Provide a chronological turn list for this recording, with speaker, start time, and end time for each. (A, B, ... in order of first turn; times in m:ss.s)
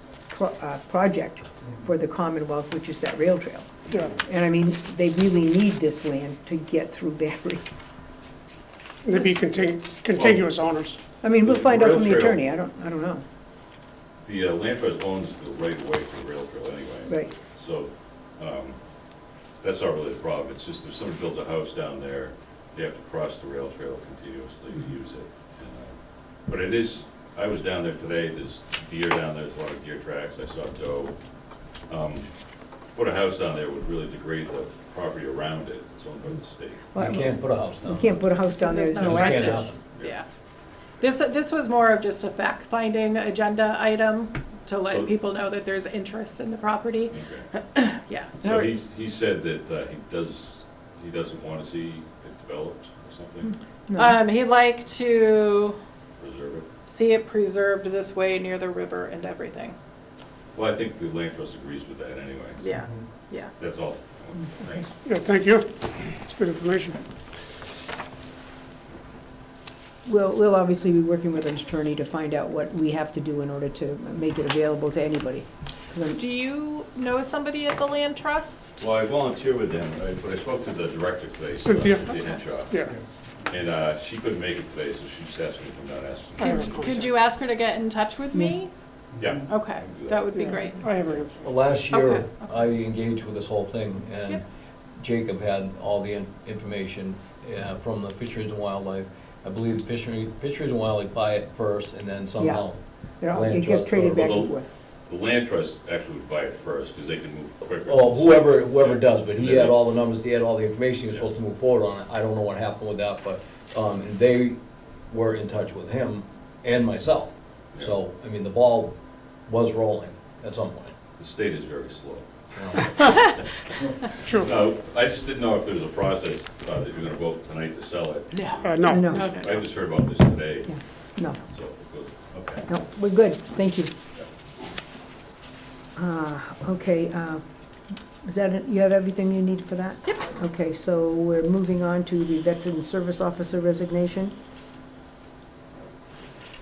0:00.3-0:07.6 A
0:03.9-0:04.2 B
0:09.0-0:11.0 B
0:10.1-0:10.5 C
0:11.2-0:13.2 A
0:11.4-0:12.4 C
0:14.2-0:18.8 C
0:17.1-0:17.3 A
0:19.6-0:31.2 C
0:31.9-0:32.3 C
0:32.9-0:36.8 C
0:36.9-0:39.7 A
0:37.0-0:38.3 D
0:38.6-0:40.2 E
0:39.0-0:39.8 D
0:41.0-0:48.7 E
0:44.8-0:45.1 C
0:47.1-0:47.5 C
0:48.4-0:53.5 C
0:53.9-0:54.2 A
0:54.0-0:55.8 E
0:56.2-0:56.7 C
0:56.9-0:59.8 E
1:00.6-1:02.7 C
1:02.6-1:03.5 E
1:03.6-1:04.9 C
1:05.0-1:07.0 B
1:10.0-1:16.2 A
1:16.1-1:18.8 E
1:18.8-1:22.8 C
1:21.6-1:23.0 B
1:23.4-1:26.8 C
1:26.4-1:27.2 B
1:26.4-1:28.7 E
1:29.2-1:30.3 C
1:29.5-1:30.8 E
1:30.3-1:31.6 B
1:31.0-1:31.3 C
1:31.4-1:34.4 D
1:31.9-1:32.7 E
1:35.0-1:44.4 D
1:42.4-1:42.7 A
1:43.2-1:44.7 A
1:44.2-1:44.6 C
1:45.1-1:49.8 C
1:47.9-2:00.9 D
2:01.2-2:10.8 C
2:02.6-2:03.0 D
2:08.3-2:09.7 E
2:08.6-2:09.1 B
2:08.8-2:09.4 A
2:10.7-2:11.4 A
2:11.3-2:12.7 C
2:12.7-2:13.9 A
2:16.0-2:17.4 A
2:18.2-2:24.3 A